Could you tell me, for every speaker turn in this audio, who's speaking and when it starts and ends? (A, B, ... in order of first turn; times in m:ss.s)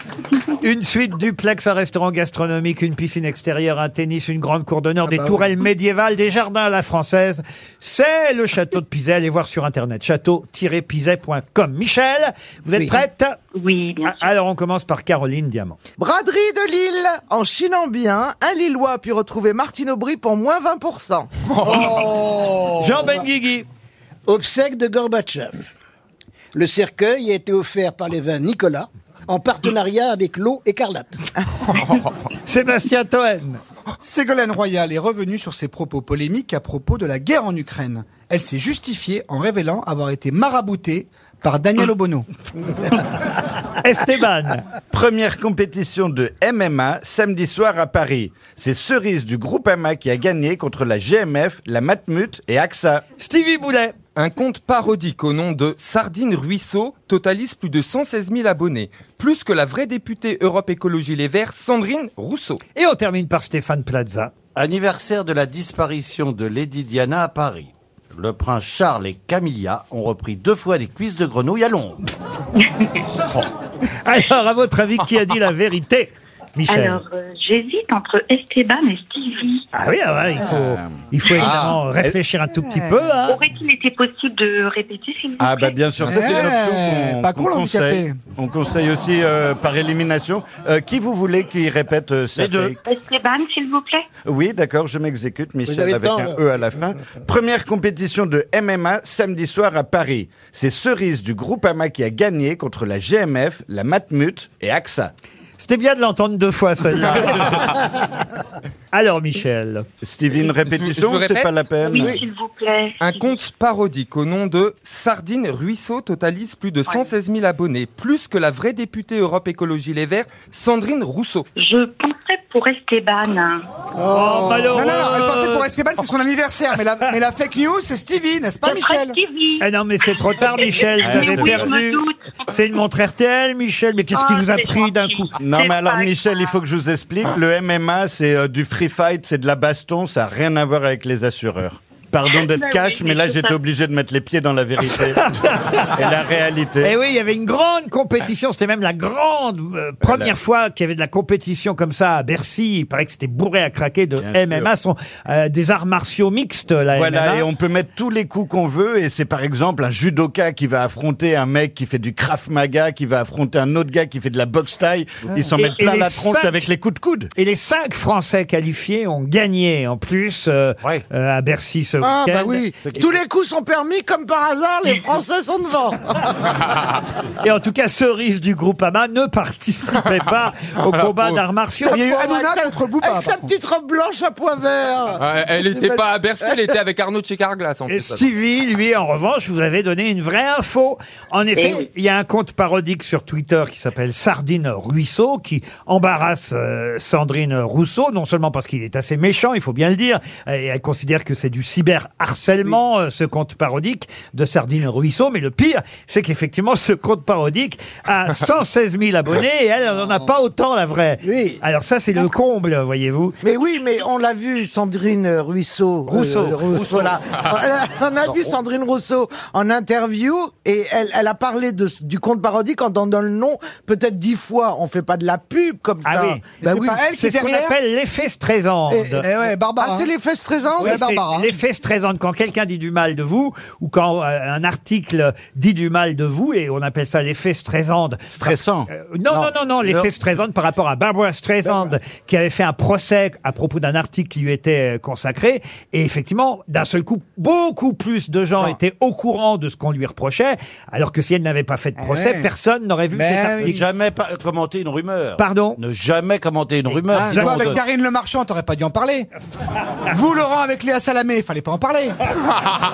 0:00.6-0:13.4 A
0:05.1-0:05.5 B
0:12.8-0:13.0 C
0:13.5-0:14.3 D
0:14.1-0:15.8 A
0:16.0-0:21.3 C
0:21.5-0:22.0 E
0:21.7-0:22.9 B
0:22.8-0:23.7 A
0:24.3-0:25.6 F
0:26.5-0:31.2 F
0:32.3-0:33.6 A
0:34.0-0:42.3 B
0:43.8-0:44.6 A
0:44.9-0:53.0 G
0:53.2-0:53.9 A
0:54.2-1:02.6 E
1:02.8-1:04.3 A
1:04.6-1:12.0 H
1:14.0-1:17.0 A
1:16.7-1:19.7 D
1:19.7-1:23.4 A
1:20.5-1:20.9 G
1:22.7-1:22.9 B
1:23.3-1:25.8 D
1:25.4-1:32.8 G
1:26.1-1:28.2 B
1:32.4-1:32.8 H
1:32.9-1:34.1 D
1:34.2-1:45.1 G
1:35.7-1:36.4 F
1:45.6-1:47.9 A
1:48.9-1:49.9 A
1:50.0-1:52.2 G
1:50.6-1:52.1 E
1:51.8-1:53.4 D
1:53.0-2:01.5 E
2:01.6-2:03.7 D
2:04.1-2:05.7 A
2:04.2-2:04.6 F
2:04.7-2:09.2 B
2:08.6-2:09.7 D
2:09.6-2:15.3 A
2:10.4-2:12.2 D
2:11.0-2:11.7 G
2:14.1-2:16.6 D
2:15.4-2:25.3 G
2:22.3-2:23.6 D
2:24.9-2:26.0 A
2:25.9-2:26.9 G
2:26.8-2:37.5 A
2:30.0-2:30.3 G
2:34.2-2:34.7 G
2:36.9-2:47.3 G
2:45.6-2:46.7 A
2:47.4-2:52.7 A
2:52.0-2:56.2 C
2:52.8-2:53.2 H
2:57.4-3:02.0 A
3:00.9-3:01.4 E
3:01.8-3:03.5 B
3:01.9-3:06.7 C
3:05.2-3:08.2 E
3:07.9-3:33.4 A
3:11.6-3:11.9 D
3:31.2-3:31.6 F
3:33.4-3:47.0 C
3:36.1-3:37.1 H
3:38.3-3:38.5 H
3:46.0-3:46.4 A
3:46.6-3:47.8 B
3:47.1-3:49.3 A
3:48.9-3:49.2 C
3:49.2-3:50.1 B
3:49.8-3:50.9 C
3:50.8-3:51.6 B
3:50.8-4:13.8 A
3:58.3-3:58.9 G
3:59.3-4:00.0 C
4:12.0-4:12.5 B
4:13.1-4:13.8 B
4:13.6-4:17.8 H
4:15.4-4:15.8 A
4:17.1-4:19.3 B
4:17.2-4:17.7 A
4:20.1-4:22.3 B